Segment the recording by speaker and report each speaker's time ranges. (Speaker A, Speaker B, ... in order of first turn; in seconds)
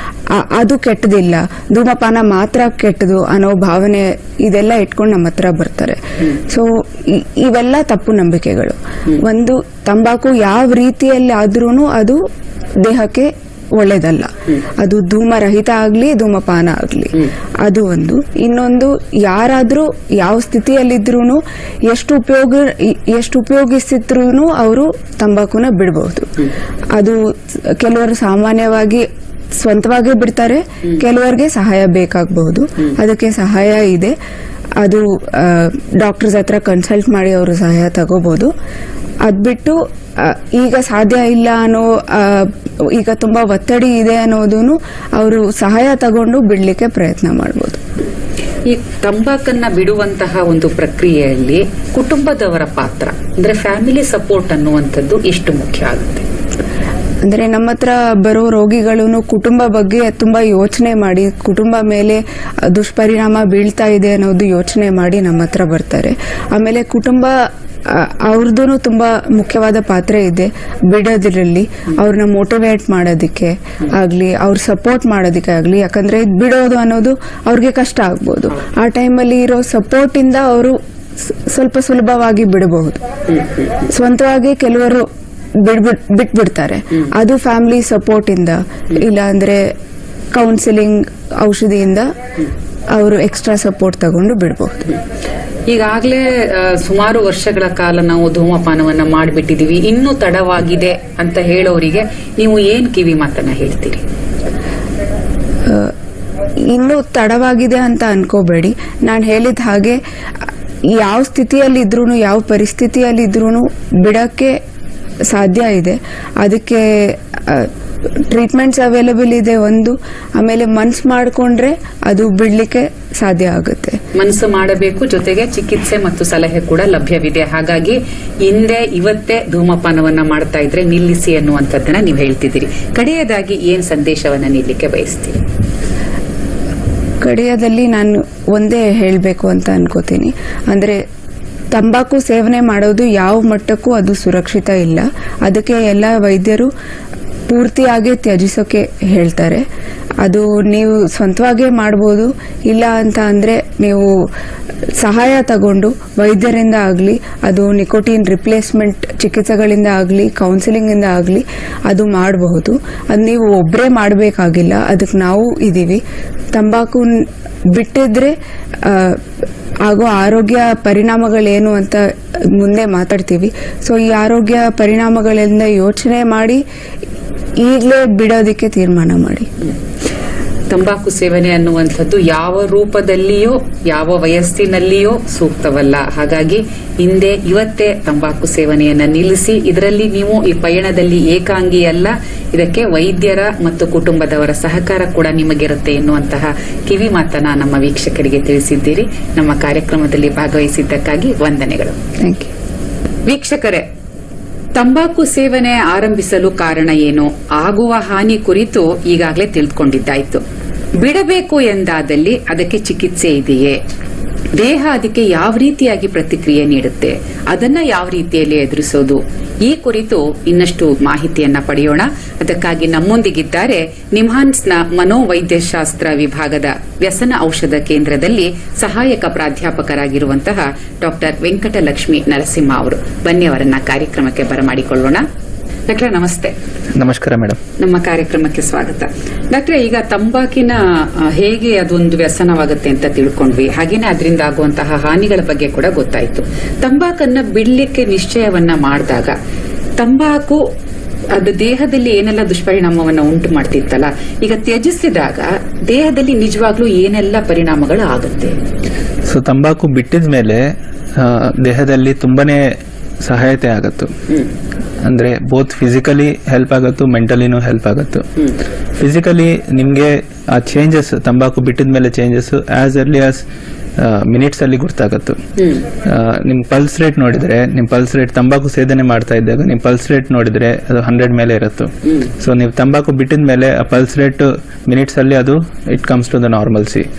Speaker A: 0.3-12.2, 12.8-26.3, 26.9-34.1, 34.8-38.5, 39.2-47.8, 57.2-83.0, 83.8-85.1, 85.6-89.7, 90.3-92.1, 92.9-95.0, 105.7-105.9, 106.6-114.6, 115.3-124.0, 137.2-141.0, 141.7-146.7, 147.5-149.7, 150.2-154.1, 155.0-166.0, 166.5-169.2, 169.8-176.6, 177.6-179.5, 202.2-202.5
Speaker B: 48.6-56.2, 83.4-83.7, 95.7-104.0, 124.1-135.4, 180.7-202.0, 203.2-203.9, 204.7-210.4, 211.0-213.8, 214.5-235.2, 235.9-236.6, 237.8-249.3, 250.0-250.7, 251.3-258.6, 275.6-275.8
Speaker C: 236.9-237.6, 259.2-264.1, 265.0-268.3, 269.0-273.4, 274.0-275.4, 276.0-287.1